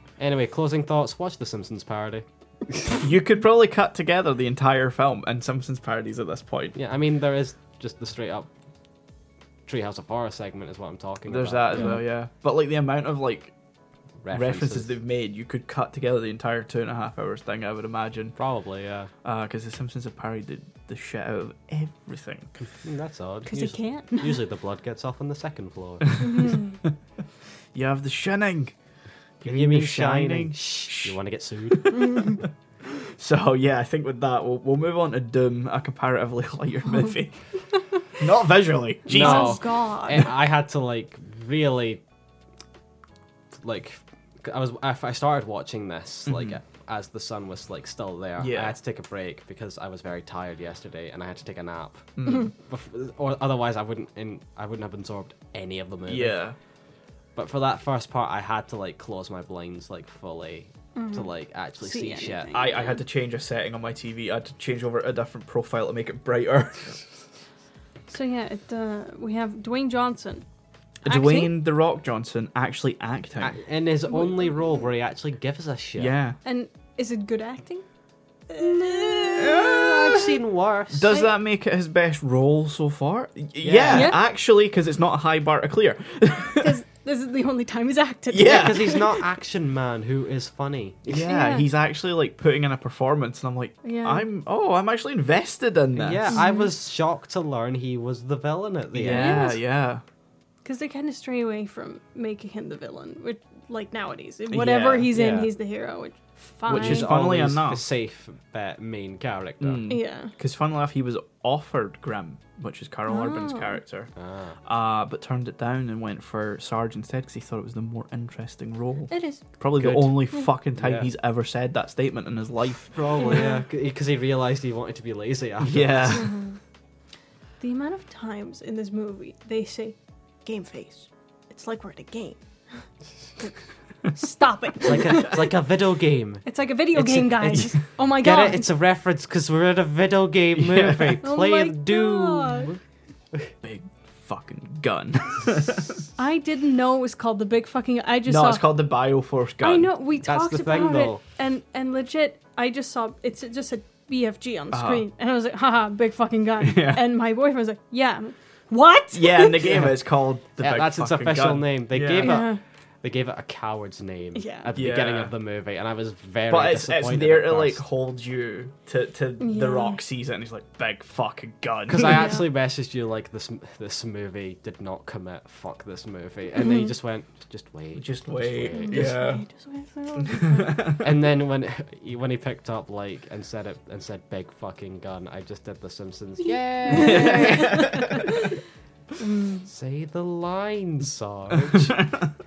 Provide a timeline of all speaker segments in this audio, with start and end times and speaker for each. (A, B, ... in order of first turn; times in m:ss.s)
0:00.2-0:03.0 A
0:03.0-0:06.7 B
0:06.7-0:08.5 A
0:09.6-0:12.0 A
0:11.3-0:13.5 B
0:14.2-0:14.9 A
0:14.3-0:18.4 B
0:18.4-0:19.1 A
0:19.2-0:22.6 B
0:22.8-0:26.5 A
0:23.4-0:24.4 C
0:26.3-0:26.7 C
0:27.7-0:28.7 B
0:29.4-0:31.2 B
0:29.4-0:32.4 A
0:31.7-0:32.3 B
0:31.9-0:32.4 C
0:33.1-0:37.5 B
0:38.1-0:39.6 B
0:39.1-0:40.3 C
0:39.1-0:42.0 A
0:43.6-0:56.4 A
0:46.3-0:46.6 B
0:48.4-0:48.8 B
0:52.2-0:52.5 B
0:56.1-0:56.5 B
0:57.4-1:02.7 A
1:00.9-1:03.0 C
1:02.5-1:07.0 B
1:08.1-1:10.4 C
1:11.0-1:11.5 C
1:11.0-1:13.6 B
1:13.4-1:16.1 A
1:14.1-1:14.9 C
1:16.0-1:16.4 B
1:16.4-1:17.8 C
1:18.5-1:19.8 C
1:19.4-1:20.3 B
1:19.4-1:21.1 A
1:20.9-1:26.8 B
1:23.6-1:24.1 A
1:23.9-1:24.2 C
1:26.6-1:29.3 C
1:28.3-1:29.0 B
1:28.4-1:31.2 A
1:31.1-1:36.4 B
1:31.2-1:31.7 C
1:33.8-1:34.2 C
1:35.9-1:39.4 A
1:36.3-1:36.7 C
1:38.9-1:40.0 B
1:39.0-1:39.6 C
1:40.6-1:47.1 C
1:44.5-1:45.1 B
1:45.1-1:45.5 A
1:46.7-1:47.8 B
1:46.7-1:49.9 A
1:49.6-1:54.1 B
1:49.9-1:50.3 C
1:53.1-1:53.8 C
1:54.1-1:54.6 A
1:54.6-2:03.0 B
1:59.1-1:59.5 C
1:59.8-2:00.2 A
2:00.8-2:01.1 A
2:02.9-2:06.3 A
2:03.1-2:03.6 C
2:05.6-2:06.3 B
2:06.2-2:06.6 C
2:07.6-2:12.8 C
2:14.1-2:15.6 C
2:14.8-2:22.8 A
2:16.4-2:18.7 C
2:20.6-2:21.2 B
2:21.2-2:22.7 C
2:23.6-2:26.0 B
2:26.2-2:28.7 C
2:28.2-2:29.9 B
2:29.6-2:39.7 C
2:30.2-2:31.2 A
2:34.7-2:35.0 B
2:36.6-2:37.0 B
2:39.1-2:42.4 B
2:40.6-2:47.8 A
2:42.2-2:42.6 C
2:44.3-2:44.7 C
2:44.7-2:45.3 B
2:46.5-2:52.4 B
2:49.4-2:50.0 C
2:51.9-2:59.2 A
2:52.1-2:52.4 C
2:56.6-2:56.9 C
2:57.9-2:59.4 B
2:58.7-3:00.9 C
3:00.3-3:01.0 B
3:01.0-3:08.0 A
3:06.4-3:08.3 C
3:06.9-3:08.3 B
3:09.2-3:09.7 C
3:09.7-3:12.0 A
3:11.7-3:12.3 B